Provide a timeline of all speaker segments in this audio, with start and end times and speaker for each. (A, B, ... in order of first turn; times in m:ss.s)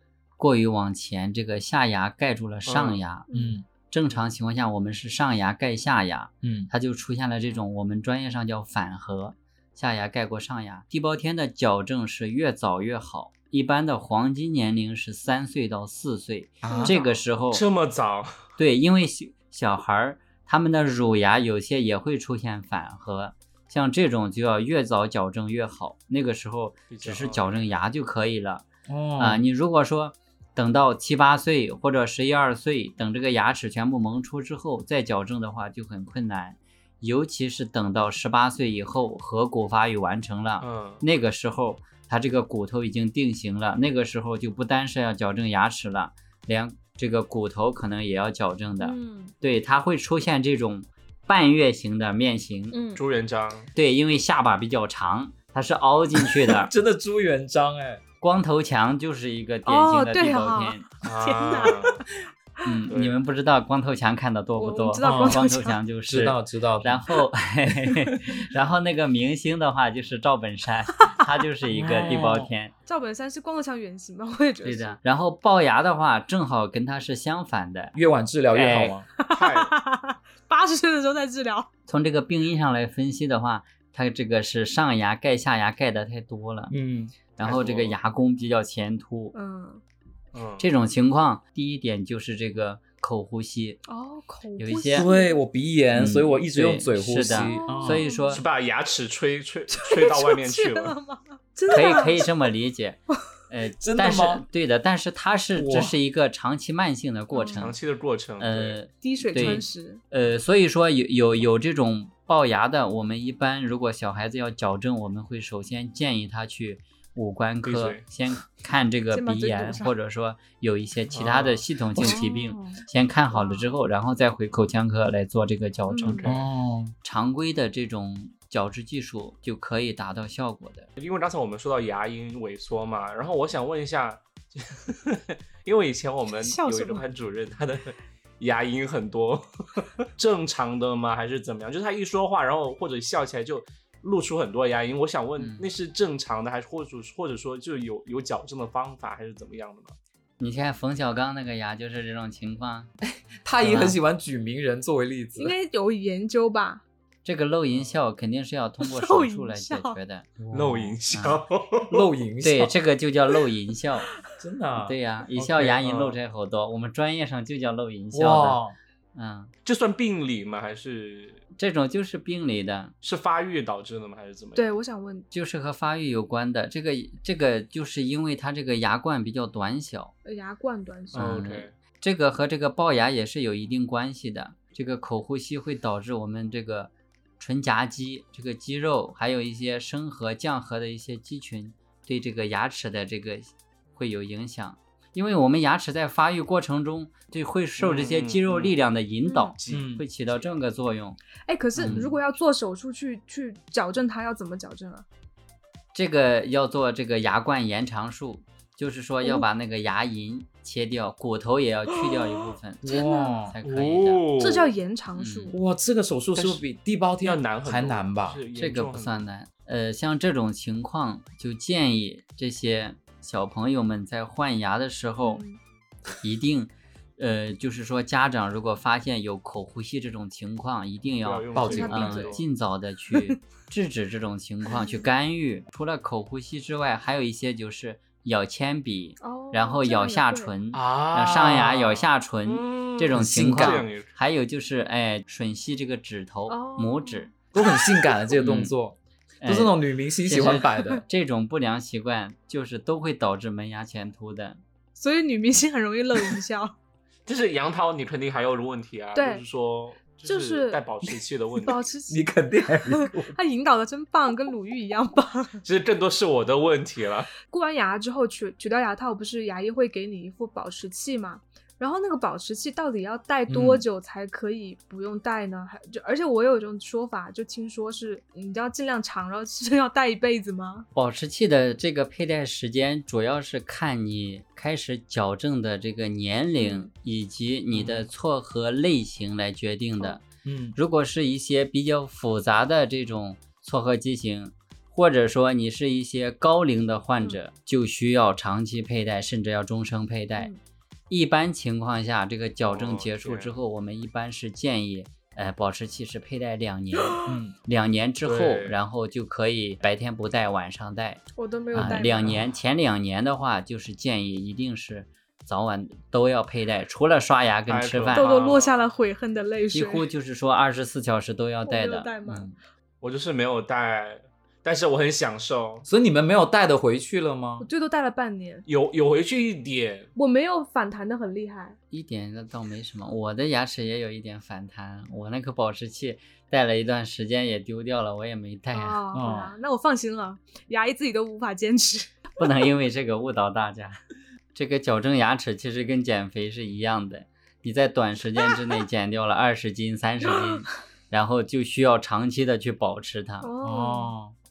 0:00.4-0:03.3 A
0:02.6-0:03.0 B
0:03.3-0:03.6 C
0:03.3-0:03.6 D
0:03.9-0:17.6 A
0:06.4-0:06.7 D
0:16.6-0:17.0 D
0:16.6-0:17.2 C
0:17.5-0:18.4 B
0:18.6-0:28.6 A
0:26.9-0:27.7 B
0:28.9-0:29.4 D
0:29.2-0:52.8 A
0:40.6-0:41.0 B
0:48.8-0:49.3 C
0:52.7-0:53.0 C
0:53.0-0:53.7 B
0:53.7-0:56.7 A
0:56.1-0:58.0 D
0:58.2-1:00.9 A
0:59.6-1:02.0 C
1:01.0-1:02.0 B
1:02.6-1:12.7 A
1:02.9-1:03.2 B
1:04.6-1:05.8 C
1:05.0-1:05.4 D
1:06.1-1:07.2 D
1:07.8-1:08.1 D
1:11.7-1:12.5 D
1:12.8-1:15.0 C
1:14.6-1:18.0 A
1:17.9-1:19.1 D
1:18.5-1:19.7 B
1:18.6-1:18.9 A
1:19.2-1:21.7 C
1:21.9-1:26.7 A
1:26.7-1:27.2 D
1:27.4-1:29.3 A
1:27.4-1:28.0 B
1:29.3-1:29.8 C
1:30.3-1:30.7 B
1:30.6-1:33.8 A
1:33.9-1:35.4 C
1:34.6-1:35.1 A
1:34.9-1:38.0 D
1:35.9-1:38.4 A
1:37.3-1:38.4 C
1:38.3-1:41.0 B
1:39.7-1:42.3 C
1:41.7-1:47.8 A
1:43.8-1:44.4 D
1:45.5-1:45.9 D
1:47.3-1:47.6 C
1:47.5-1:48.8 B
1:48.4-2:06.3 A
1:49.0-1:50.0 C
1:57.6-1:58.0 B
1:59.1-1:59.9 C
2:01.0-2:01.6 B
2:02.0-2:03.7 C
2:05.9-2:06.3 C
2:06.2-2:06.5 B
2:06.2-2:06.9 D
2:07.0-2:10.9 A
2:11.0-2:29.9 B
2:16.4-2:17.0 C
2:25.4-2:25.7 A
2:30.4-2:32.9 A
2:33.0-2:35.5 D
2:33.6-2:34.0 A
2:35.4-2:36.8 C
2:37.2-2:40.3 A
2:37.7-2:38.0 B
2:38.8-2:40.0 C
2:40.4-2:41.0 D
2:40.5-2:42.0 B
2:41.1-2:41.4 A
2:41.8-2:42.8 D
2:42.4-2:44.2 A
2:44.4-2:46.2 D
2:44.8-2:48.6 A
2:48.1-2:48.8 D
2:49.1-2:49.5 A
2:49.6-2:51.4 B
2:51.6-2:52.9 A
2:53.0-2:54.6 B
2:54.5-2:55.2 C
2:55.3-3:00.1 A
3:00.2-3:01.4 C
3:01.1-3:21.2 A
3:01.1-3:01.7 B
3:17.8-3:18.8 B
3:19.2-3:19.6 C
3:19.6-3:20.6 B
3:19.7-3:20.0 D
3:21.4-3:25.0 C
3:21.8-3:22.1 D
3:21.8-3:22.1 A
3:25.9-3:34.2 A
3:32.8-3:33.5 D
3:32.9-3:33.4 C
3:33.6-3:34.7 B
3:34.4-3:35.6 C
3:35.2-3:35.5 A
3:35.5-3:38.4 D
3:36.4-3:36.6 B
3:37.2-3:39.3 B
3:38.5-3:45.4 A
3:45.2-3:45.6 C
3:46.2-4:07.3 A
3:51.0-3:52.5 B
3:51.5-3:52.1 D
3:51.7-3:52.4 C
3:54.7-3:55.0 C
3:59.2-4:00.5 C
4:00.7-4:04.1 B
4:03.1-4:03.8 D
4:06.5-4:07.3 C
4:07.5-4:11.0 D
4:08.4-4:08.7 A
4:09.4-4:14.6 A
4:15.0-4:16.7 C
4:17.2-4:21.8 B
4:19.1-4:19.4 C
4:20.2-4:20.8 C
4:21.6-4:22.2 C
4:22.1-4:23.4 D
4:22.9-4:25.6 C
4:25.6-4:27.3 B
4:27.4-4:40.9 C
4:33.5-4:33.8 D
4:40.9-5:00.5 A
4:46.6-4:46.9 C
4:47.7-4:48.0 D
4:50.4-4:50.8 D
5:01.1-5:18.3 A
5:02.6-5:03.6 B
5:07.0-5:07.3 C
5:07.2-5:07.6 D
5:08.2-5:08.8 B
5:11.4-5:12.4 C
5:11.7-5:12.5 D
5:17.7-5:18.9 B
5:18.1-5:20.1 C
5:19.7-5:22.5 A
5:21.6-5:22.5 C
5:23.0-5:25.8 B
5:25.8-5:27.7 D
5:27.6-5:28.6 C
5:28.7-5:30.1 B
5:30.1-5:31.8 C
5:31.9-5:39.0 A
5:38.7-5:42.2 C
5:39.1-5:39.5 D
5:42.4-5:44.0 A
5:44.5-5:53.5 A
5:53.4-5:54.1 C
5:53.6-5:54.3 D